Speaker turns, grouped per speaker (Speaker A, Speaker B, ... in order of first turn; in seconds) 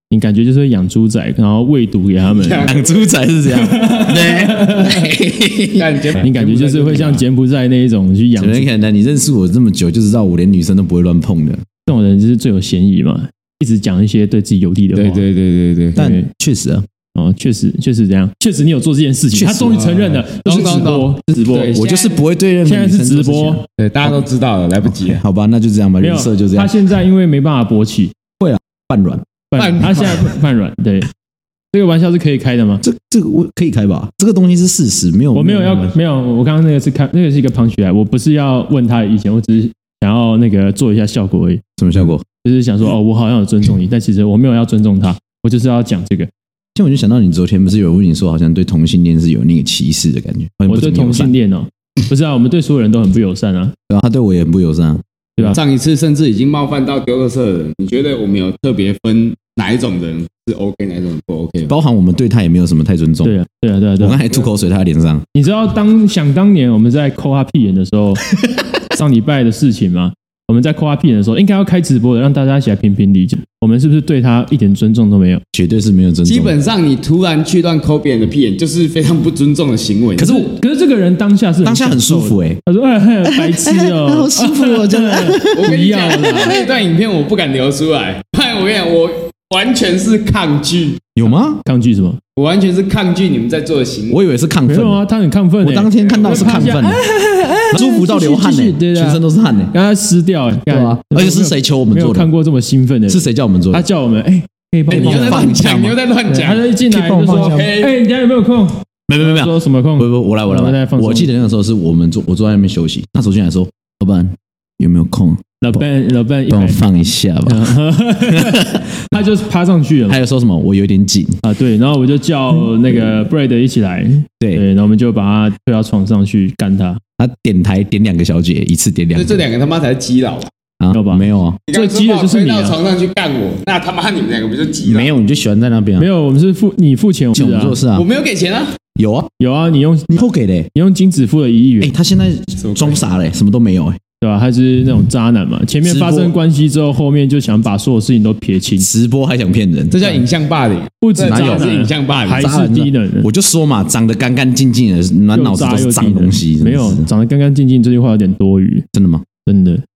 Speaker A: 0.1-2.7, 3.5-5.1, 6.2-8.7, 11.9-15.2, 16.0-16.3, 17.1-21.8, 22.6-23.6, 26.0-28.1, 29.5-31.1, 31.7-32.8, 35.3-41.6, 42.4-46.3, 50.7-53.8, 63.2-64.2, 65.3-68.2, 68.9-75.4, 80.2-86.6, 91.6-92.2, 94.7-105.6, 106.3-111.3, 115.6-116.8, 117.5-120.2, 121.4-127.0, 130.9-132.8, 136.0-137.8, 139.4-140.2, 140.7-141.9, 144.2-148.9, 151.0-153.3, 155.3-158.9, 159.5-159.8
Speaker B: 2.3-3.1, 5.8-7.2, 14.9-16.0, 19.7-22.2, 23.8-25.2, 29.6-30.3, 55.5-61.7, 76.2-80.3, 85.5-91.1, 92.4-94.2, 96.0-96.8, 104.9-106.7, 107.3-107.9, 129.2-130.5, 131.7-135.1, 137.9-138.8, 142.6-143.0, 149.9-152.5
Speaker C: 2.7-6.1, 8.4-11.6, 16.0-16.9, 19.3-19.8, 20.5-20.9, 21.7-24.2, 25.1-26.7, 28.4-29.3, 32.8-35.9, 41.8-42.2, 46.8-51.3, 53.9-55.5, 61.7-63.4, 64.0-65.2, 75.5-76.6, 80.2-80.5, 81.6-82.6, 83.2-85.7, 86.2-86.7, 91.2-91.6, 94.1-95.0, 95.6-97.0, 97.7-99.7, 100.7-102.3, 103.1-103.8, 104.9-106.0, 106.9-107.7, 109.1-115.4, 116.5-117.8, 118.3-119.2, 120.1-121.4, 127.2-129.4, 130.8-131.6, 134.9-136.1, 137.3-138.1, 139.0-139.3, 140.1-140.7, 141.8-144.0, 145.8-146.4, 148.8-150.2, 151.2-151.7, 152.3-157.1, 158.9-159.2